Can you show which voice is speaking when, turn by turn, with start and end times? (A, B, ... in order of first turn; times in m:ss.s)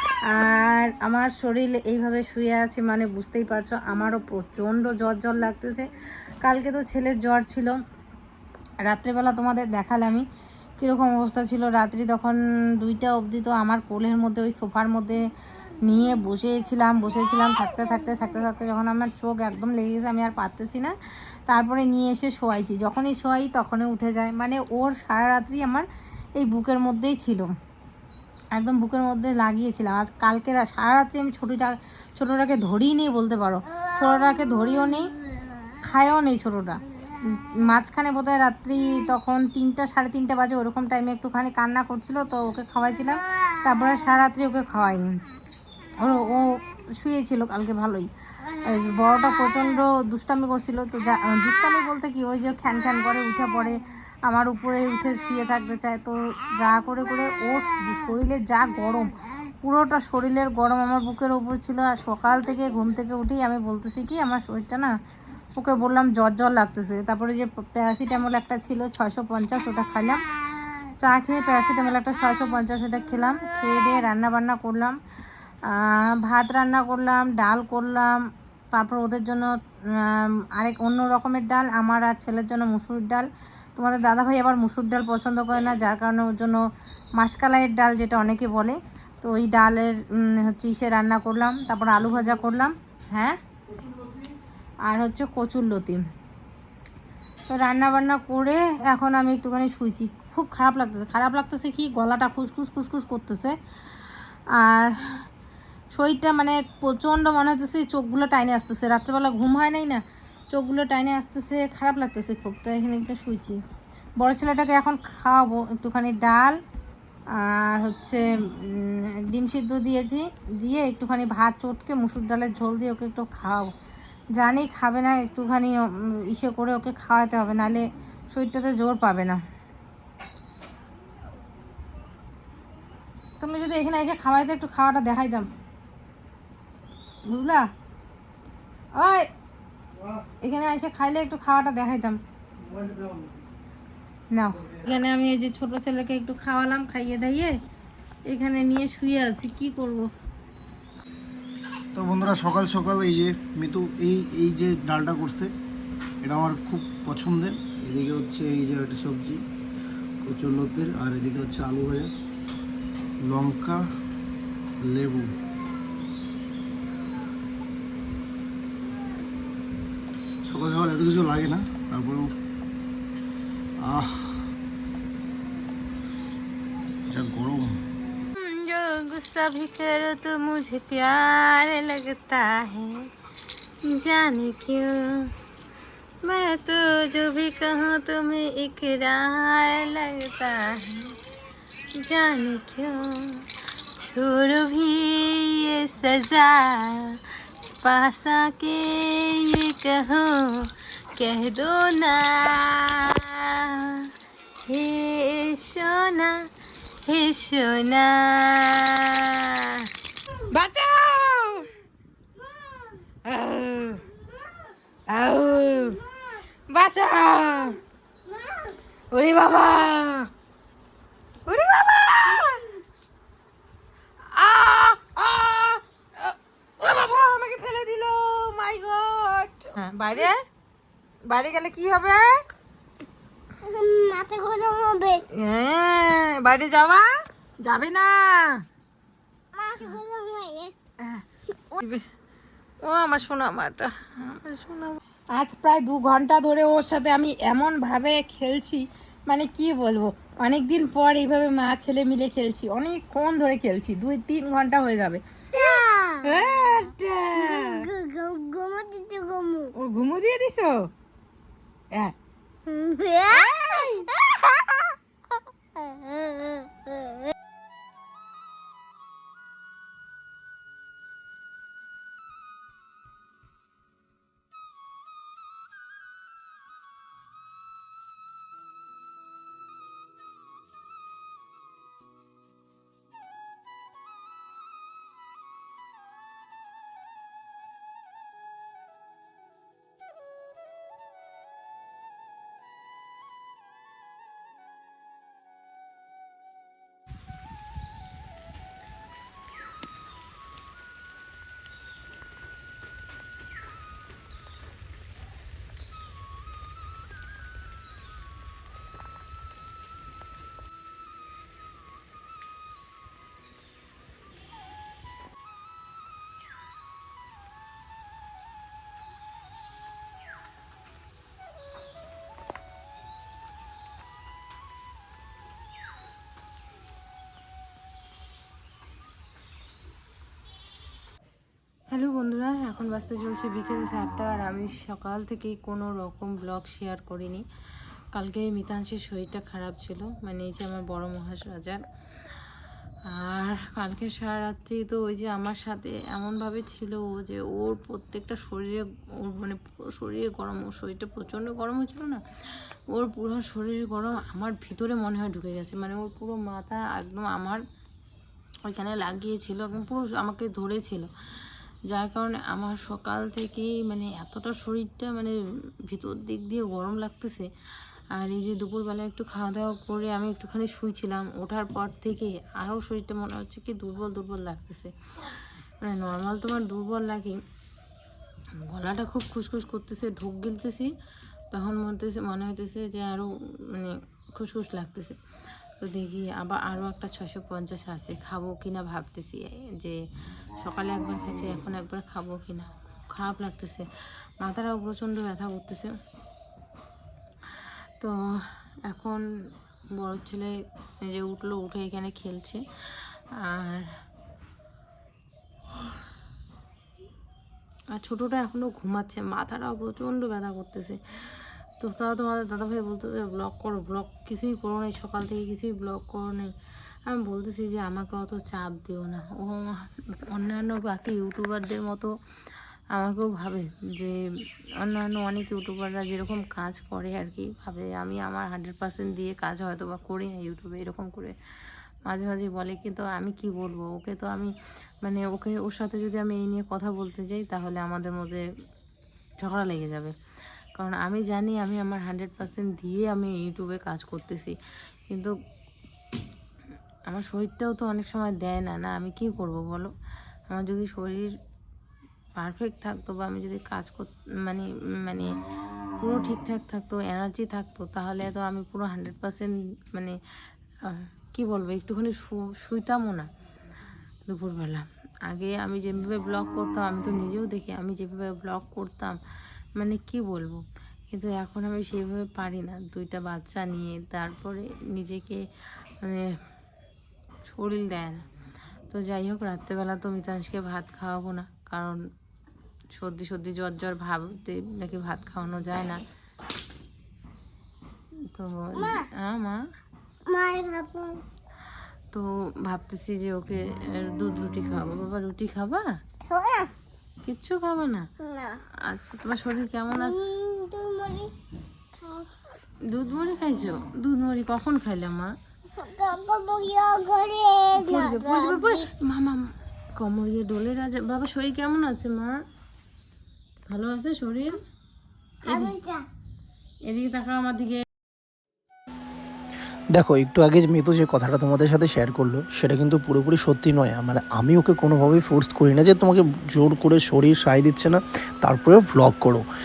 0:00.3-0:05.9 A
0:06.4-0:07.8 A
0:08.8-0:10.2 A
0:10.8-0:15.2 A
0:15.8-0:20.9 A
0:21.5-0:27.5 A
0:28.5-0:35.1 A
0:35.8-0:45.1 A
0:46.0-0:59.1 A
0:59.6-1:04.9 A
1:05.5-1:10.2 A
1:11.0-1:15.0 A
1:15.7-1:26.6 A
1:27.2-1:33.4 A
1:34.8-1:36.0 A
1:37.5-1:43.5 A
1:44.6-1:45.1 A
1:45.9-1:53.6 A
1:54.2-1:56.6 A
1:57.4-2:03.7 A
2:04.4-2:09.4 A
2:13.4-2:15.5 A
2:17.2-2:17.7 A
2:18.9-2:19.3 A
2:20.4-2:22.2 A
2:22.7-2:23.2 B
2:24.3-2:27.5 A
2:28.3-2:30.1 A
2:31.9-2:35.5 B
2:36.2-2:39.4 B
2:40.2-2:42.1 B
2:43.2-2:43.8 B
2:44.8-2:45.4 B
2:50.4-2:52.3 B
2:53.9-2:54.2 B
2:57.1-2:57.7 B
2:58.4-3:03.0 A
3:04.0-3:04.9 A
3:06.3-3:11.0 A
3:12.1-3:13.3 A
3:14.0-3:17.0 A
3:17.8-3:20.3 A
3:21.2-3:23.8 A
3:24.7-3:26.3 A
3:27.1-3:29.8 A
3:30.5-3:31.6 A
3:33.2-3:34.0 A
3:35.1-3:36.0 A
3:36.7-3:37.8 A
3:39.1-3:40.3 A
3:41.4-3:42.7 A
3:44.3-3:50.3 A
3:51.2-3:52.4 A
3:53.6-3:55.2 C
3:55.4-3:57.1 A
3:57.6-3:58.6 A
3:59.5-4:00.7 C
4:01.0-4:02.0 A
4:02.9-4:17.9 A
4:15.7-4:16.2 C
4:17.5-4:19.7 C
4:19.8-4:20.7 A
4:22.6-4:23.4 C
4:23.3-4:24.1 A
4:25.8-4:26.7 C
5:31.9-5:37.4 D
5:32.2-5:33.2 A
5:38.1-5:41.8 D
5:38.6-5:39.2 A
5:40.5-5:41.4 A
5:43.1-5:57.6 D
5:44.0-5:44.5 A
5:45.2-5:45.8 A
5:46.3-5:48.4 A
5:50.2-5:50.7 A
5:54.9-5:56.1 A
5:58.7-6:01.1 D
5:59.7-6:00.9 A
6:01.9-6:05.3 D
6:05.9-6:07.5 D
6:08.2-6:14.9 D
6:15.8-6:17.4 D
6:18.7-6:20.9 D
6:21.5-6:25.2 D
6:25.8-6:30.0 D
6:30.6-6:33.9 D
6:34.4-6:35.9 D
6:38.9-6:39.2 D
6:40.0-6:40.5 D
6:41.0-6:43.9 D
6:47.9-6:56.5 D
6:57.1-7:02.1 D
7:02.9-7:04.2 D
7:04.8-7:11.3 D
7:12.1-7:14.5 D
7:15.0-7:18.4 D
7:19.4-7:20.1 D
7:20.8-7:24.6 D
7:27.1-7:29.9 D
7:30.5-7:31.3 D
7:32.4-7:35.3 D
7:36.0-7:40.2 D
7:40.8-7:43.3 D
7:44.3-7:49.2 D
7:49.8-7:55.4 D
7:56.0-7:56.3 D
7:57.4-7:58.2 D
7:58.9-8:02.0 D
8:02.9-8:06.0 D
8:08.3-8:09.6 D
8:10.3-8:11.2 C
8:12.1-8:15.9 D
8:16.3-8:16.7 C
8:17.2-8:18.1 D
8:18.2-8:18.5 C
8:18.9-8:20.2 D
8:20.1-8:21.3 C
8:22.0-8:22.5 C
8:22.9-8:25.3 D
8:25.8-8:28.8 C
8:27.7-8:29.5 D
8:27.9-8:28.7 A
8:30.0-8:32.4 D
8:31.4-8:31.8 A
8:33.7-8:34.4 D
8:34.0-8:34.4 A
8:35.5-8:35.8 D
8:35.5-8:36.0 C
8:37.0-8:37.8 A
8:39.9-8:49.4 E